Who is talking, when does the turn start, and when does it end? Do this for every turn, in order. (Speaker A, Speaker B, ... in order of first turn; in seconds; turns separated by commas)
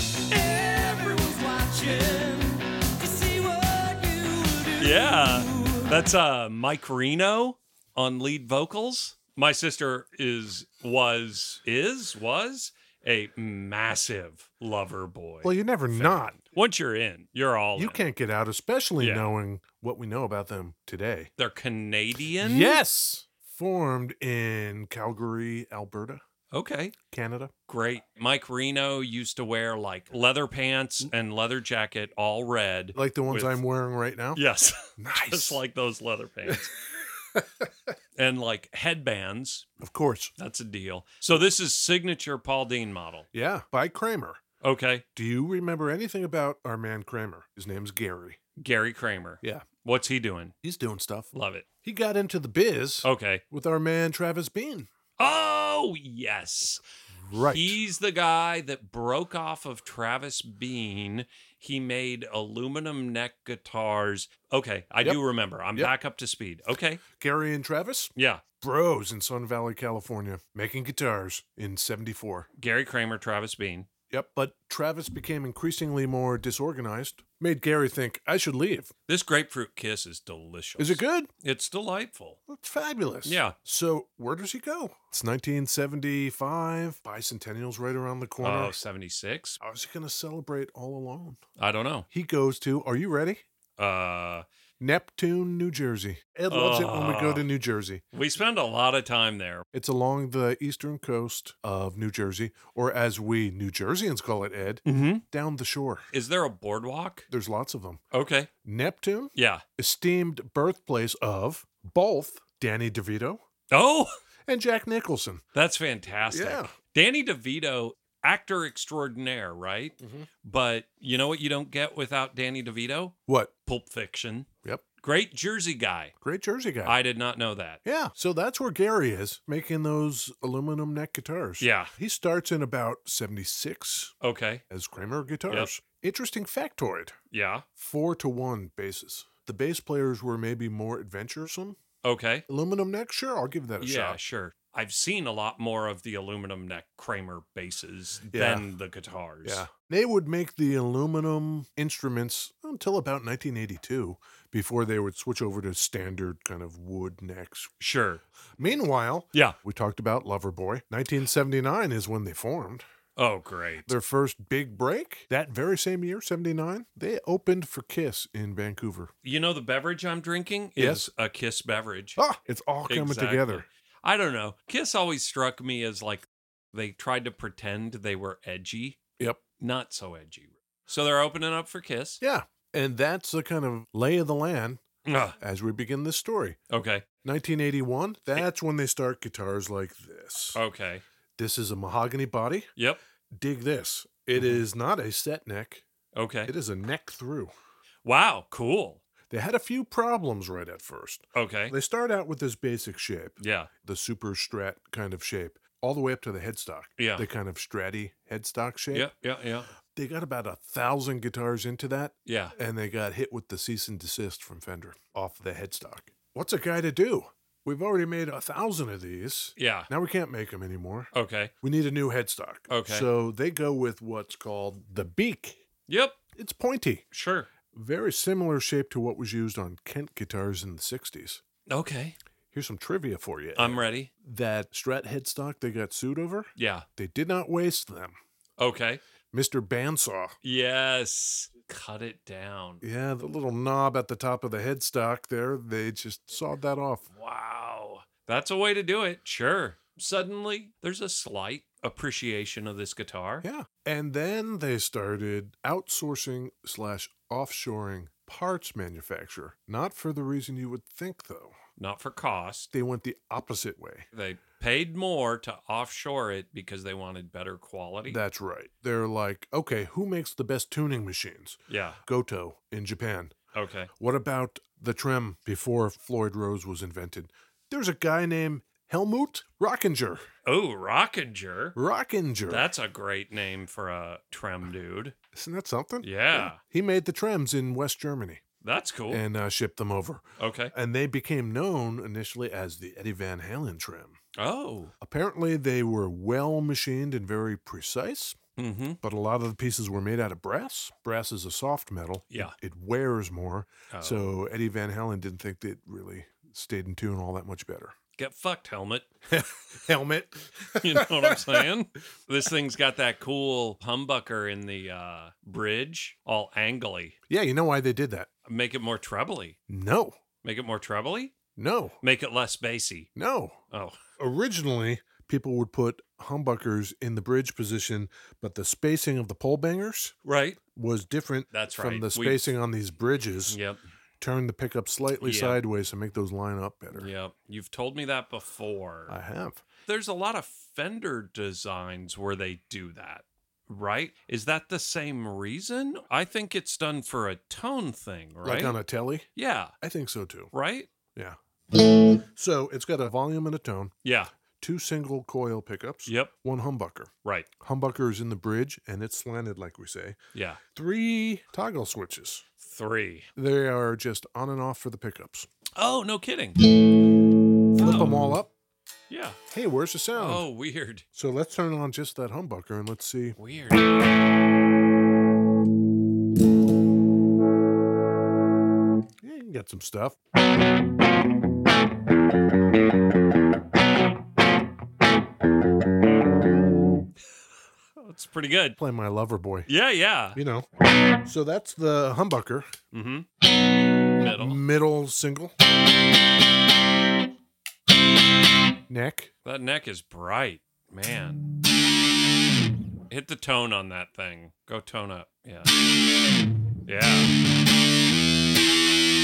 Speaker A: 0.3-6.0, Speaker B: 4.8-18.0, Speaker C: 15.4-16.4, Speaker C: 17.8-21.3, Speaker B: 19.0-19.3, Speaker B: 21.4-22.8, Speaker C: 22.4-26.2, Speaker B: 26.5-26.9, Speaker C: 27.1-27.5, Speaker B: 27.7-33.6, Speaker C: 32.9-34.4, Speaker B: 34.3-36.7, Speaker C: 35.0-35.6, Speaker B: 38.1-39.7, Speaker C: 39.8-40.3, Speaker B: 40.4-43.3, Speaker C: 43.3-44.4, Speaker B: 44.6-45.0, Speaker C: 45.1-48.4, Speaker B: 48.5-50.5, Speaker C: 50.6-51.3, Speaker B: 51.3-51.6, Speaker C: 51.8-54.9, Speaker B: 53.0-53.4, Speaker B: 55.2-56.8, Speaker C: 57.2-57.8, Speaker B: 57.3-67.0, Speaker C: 67.2-72.5, Speaker B: 68.2-68.4, Speaker B: 72.6-73.9, Speaker C: 74.1-78.9, Speaker B: 79.1-82.4, Speaker C: 80.8-81.3, Speaker C: 82.5-88.8, Speaker B: 83.2-83.5, Speaker B: 88.4-89.6, Speaker C: 89.6-91.4, Speaker B: 91.6-92.1, Speaker C: 92.1-93.4, Speaker B: 93.8-94.4, Speaker C: 94.8-98.0, Speaker B: 96.5-97.5, Speaker B: 98.1-99.6, Speaker C: 99.7-106.1, Speaker B: 104.8-105.2, Speaker B: 106.1-107.3, Speaker C: 107.3-108.0, Speaker B: 108.1-108.5, Speaker C: 108.6-113.4, Speaker B: 109.3-109.6, Speaker B: 113.7-114.1, Speaker C: 114.5-115.4, Speaker B: 115.5-123.1, Speaker C: 116.3-116.7, Speaker C: 120.0-120.3, Speaker C: 123.3-123.5, Speaker B: 123.7-124.5, Speaker B: 125.0-126.1, Speaker C: 126.2-127.0, Speaker B: 126.8-127.8, Speaker C: 127.8-134.1, Speaker B: 131.6-131.9, Speaker B: 134.2-134.6, Speaker C: 134.7-137.2, Speaker B: 137.3-137.7, Speaker C: 137.8-141.8, Speaker B: 142.0-142.4, Speaker C: 142.5-144.2, Speaker B: 143.8-149.7, Speaker C: 148.3-148.7, Speaker C: 149.4-157.7, Speaker B: 157.8-158.2, Speaker C: 158.6-162.8, Speaker B: 163.2-163.9, Speaker C: 163.9-169.1, Speaker B: 169.2-172.2, Speaker C: 170.8-171.1, Speaker C: 172.2-173.6, Speaker B: 172.9-179.0, Speaker B: 179.6-182.2, Speaker C: 182.2-184.8, Speaker B: 185.0-185.4, Speaker C: 185.4-186.6, Speaker B: 186.7-187.0, Speaker C: 187.2-190.6, Speaker B: 190.5-191.0, Speaker C: 191.4-192.7, Speaker C: 193.3-195.9, Speaker B: 194.4-194.6, Speaker B: 196.1-196.5, Speaker C: 196.4-197.5, Speaker B: 198.0-199.0, Speaker C: 199.3-209.1, Speaker B: 201.3-201.7, Speaker B: 203.4-203.7, Speaker B: 207.0-207.2, Speaker B: 208.9-209.7, Speaker C: 209.9-221.1, Speaker B: 212.2-212.5, Speaker B: 219.6-219.9, Speaker B: 221.1-221.5, Speaker C: 221.6-225.6, Speaker B: 222.7-223.1, Speaker B: 225.9-226.2, Speaker C: 226.4-227.0, Speaker B: 227.1-227.5, Speaker C: 227.7-231.4, Speaker B: 231.7-232.2, Speaker C: 232.5-238.2, Speaker B: 233.6-234.1, Speaker B: 236.6-236.9, Speaker B: 238.6-239.0, Speaker C: 239.3-240.4, Speaker B: 240.4-242.8, Speaker C: 242.8-247.1, Speaker B: 247.1-253.4, Speaker C: 253.4-261.6, Speaker B: 261.8-262.7, Speaker C: 262.7-264.1, Speaker B: 264.1-268.2, Speaker C: 268.1-273.4, Speaker B: 271.7-272.0, Speaker B: 273.5-273.9, Speaker C: 274.0-280.2, Speaker B: 280.4-281.8, Speaker C: 281.8-282.7, Speaker B: 282.5-285.1, Speaker C: 285.3-288.4, Speaker B: 286.0-286.6, Speaker B: 288.6-289.2, Speaker C: 289.1-294.2, Speaker B: 290.4-290.7, Speaker B: 294.4-294.9, Speaker C: 295.0-298.4, Speaker B: 298.6-299.0, Speaker C: 299.0-307.9, Speaker B: 303.9-304.3, Speaker B: 308.2-309.1, Speaker C: 309.3-311.7, Speaker B: 310.8-317.2, Speaker C: 317.3-318.3, Speaker B: 318.4-319.6, Speaker C: 319.7-320.1, Speaker B: 320.4-321.3, Speaker C: 321.6-322.0, Speaker B: 322.0-323.1, Speaker C: 323.1-323.6, Speaker B: 323.7-324.0, Speaker C: 324.2-330.1, Speaker B: 330.2-330.6, Speaker C: 330.7-333.6, Speaker B: 331.5-332.5, Speaker B: 333.5-333.8, Speaker C: 334.2-337.1, Speaker B: 335.2-335.6, Speaker B: 336.9-339.1, Speaker C: 339.1-339.6, Speaker B: 339.9-348.8, Speaker C: 348.4-349.3, Speaker B: 349.4-349.7, Speaker C: 349.8-350.5, Speaker B: 350.5-350.9, Speaker C: 352.1-353.9, Speaker B: 354.0-354.3, Speaker C: 354.6-360.2, Speaker B: 356.1-356.3, Speaker B: 357.2-357.5, Speaker B: 360.3-360.6, Speaker C: 360.7-362.4, Speaker B: 362.6-363.3, Speaker C: 363.4-365.5, Speaker B: 365.8-366.6, Speaker B: 367.7-368.3, Speaker C: 367.8-368.5, Speaker B: 369.1-369.4, Speaker C: 369.5-370.4, Speaker B: 370.1-371.0, Speaker C: 371.1-373.4, Speaker B: 373.4-374.0, Speaker C: 379.2-380.2, Speaker B: 387.9-388.8, Speaker C: 388.8-389.7, Speaker B: 389.7-390.4, Speaker C: 390.4-390.7, Speaker C: 391.2-392.7, Speaker B: 392.9-393.3, Speaker B: 394.1-394.6, Speaker C: 394.4-395.5, Speaker C: 398.9-399.3, Speaker B: 399.4-401.5, Speaker B: 403.1-405.7, Speaker B: 406.9-407.3